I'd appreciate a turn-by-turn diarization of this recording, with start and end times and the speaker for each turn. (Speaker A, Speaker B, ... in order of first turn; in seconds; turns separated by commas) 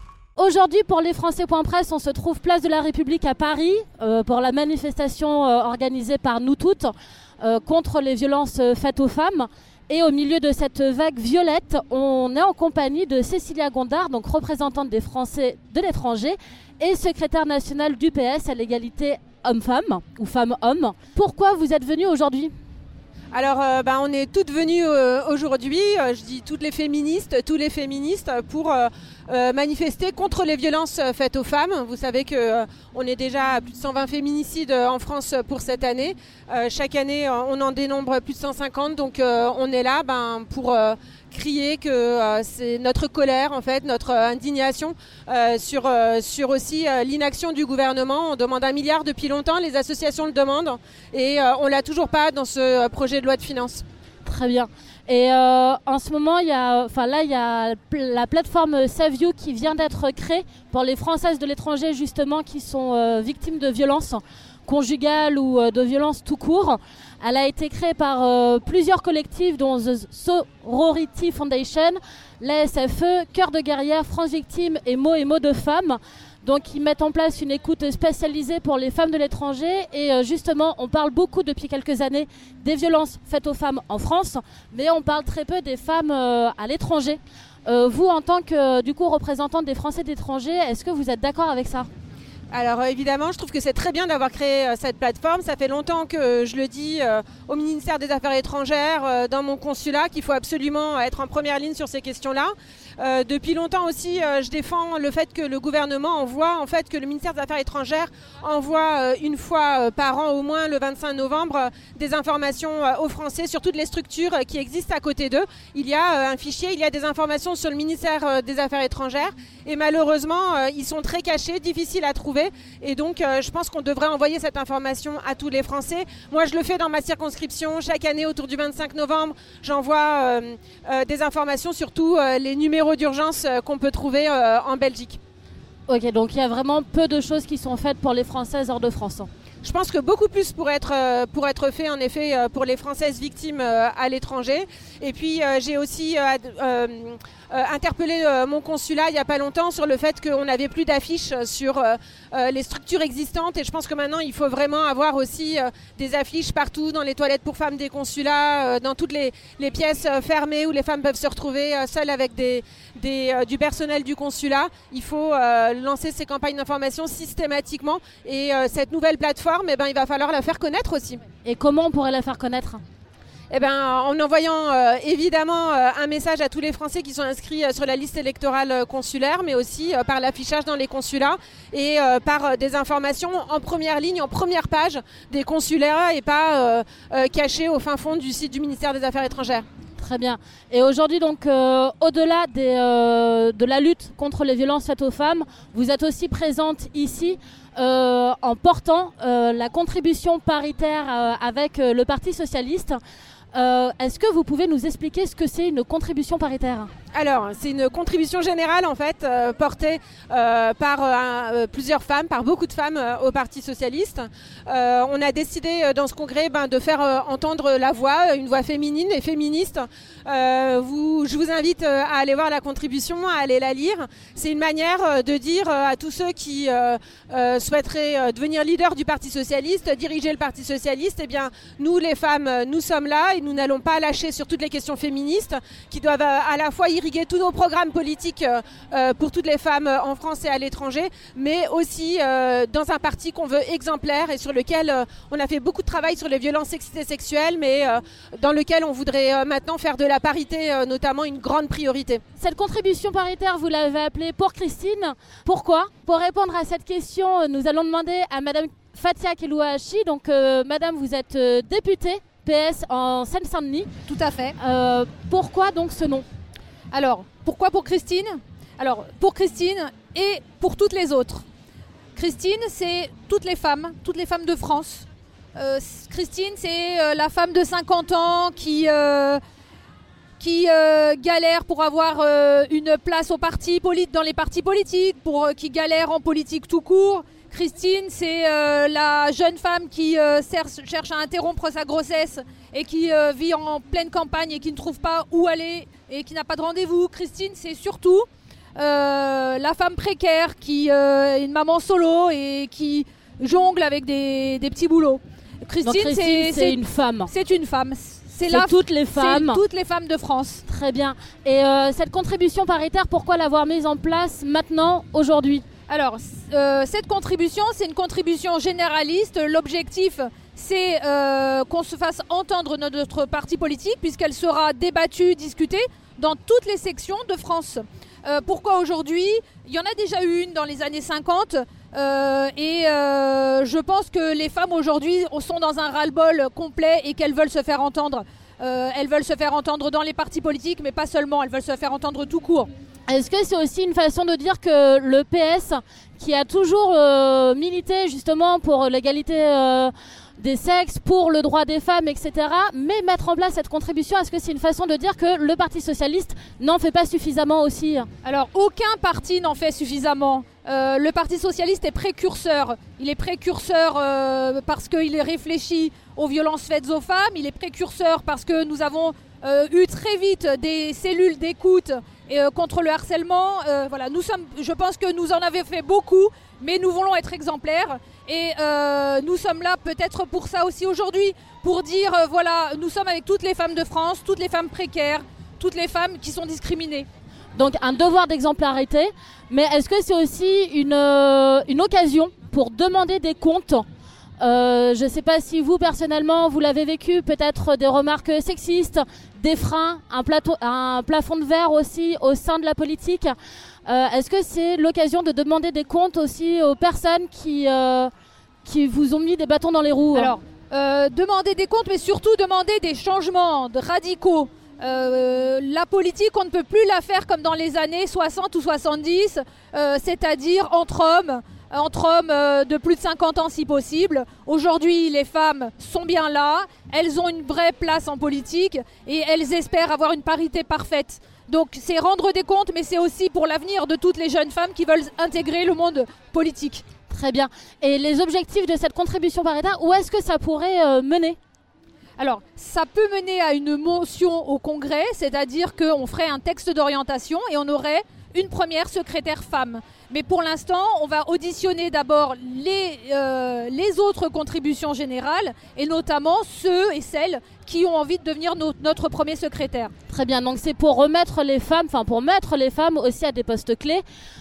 Speaker A: 0.4-22.5, Speaker B: 23.3-53.8, Speaker A: 54.2-91.9, Speaker B: 92.5-135.2, Speaker A: 135.9-139.3, Speaker B: 139.6-171.2, Speaker A: 171.4-172.8, Speaker B: 173.5-189.7, Speaker A: 190.0-203.0, Speaker A: 203.5-206.9, Speaker B: 207.1-252.2, Speaker A: 252.4-263.9, Speaker C: 264.1-264.6, Speaker A: 264.6-266.2, Speaker C: 266.9-271.4, Speaker C: 272.1-279.4, Speaker C: 280.4-310.6, Speaker A: 305.8-307.3, Speaker A: 308.5-309.6, Speaker A: 310.7-315.6, Speaker C: 315.9-342.7, Speaker A: 343.1-358.1, Speaker C: 358.2-387.1, Speaker A: 387.5-393.8, Speaker A: 394.4-403.3, Speaker A: 403.9-408.1, Speaker A: 408.6-410.3, Speaker C: 410.1-436.8, Speaker A: 437.1-441.4, Speaker C: 442.2-459.9, Speaker A: 460.1-464.0